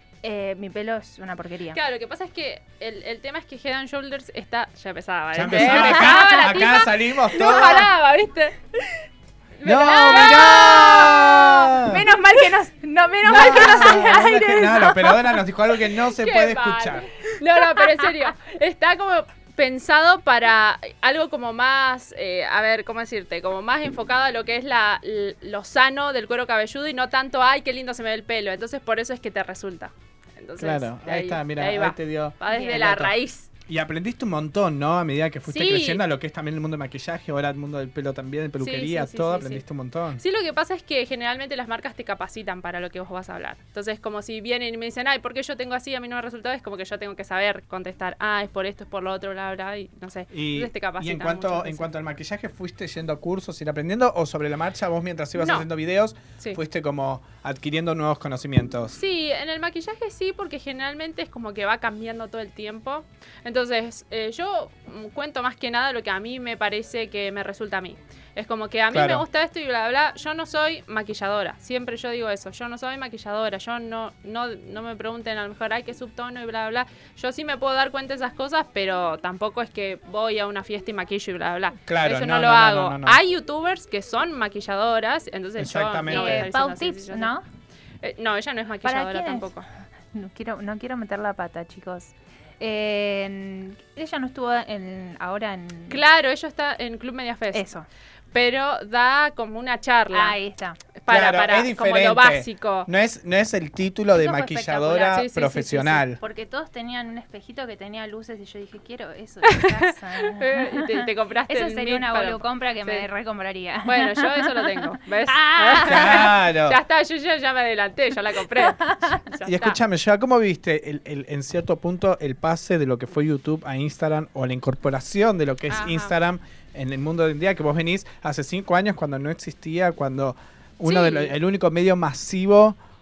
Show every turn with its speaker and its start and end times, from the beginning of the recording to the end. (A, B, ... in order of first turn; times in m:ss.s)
0:00.2-0:01.8 A
0:01.7-0:09.0 B
0:05.3-0:07.9 C
0:05.5-0:06.7 A
0:09.6-0:12.4 B
0:09.6-0:12.0 C
0:09.8-0:10.9 A
0:11.8-0:15.3 A
0:13.2-0:17.1 C
0:13.4-0:14.0 B
0:16.2-0:33.5 B
0:17.8-0:18.0 A
0:30.6-0:33.1 C
0:32.5-0:32.8 A
0:33.6-0:40.2 C
0:35.5-0:36.0 B
0:38.6-0:39.6 B
0:40.2-0:51.9 B
0:50.3-0:59.0 C
0:55.4-0:55.6 B
0:58.9-1:27.3 B
1:08.9-1:09.2 C
1:21.9-1:23.2 C
1:25.6-1:26.5 C
1:26.1-1:27.4 A
1:28.0-1:29.6 B
1:28.8-1:29.5 A
1:30.1-1:36.0 A
1:35.9-1:37.7 B
1:37.5-1:37.8 A
1:38.3-1:40.4 B
1:40.1-1:40.8 A
1:41.0-1:42.9 B
1:41.1-1:46.2 C
1:44.2-1:45.1 A
1:44.8-1:46.0 B
1:46.2-1:56.3 A
1:49.4-1:53.1 B
1:53.8-1:59.8 B
1:55.8-1:56.8 C
1:58.8-1:59.2 A
1:59.4-2:12.8 C
2:05.7-2:06.1 B
2:10.8-2:11.3 B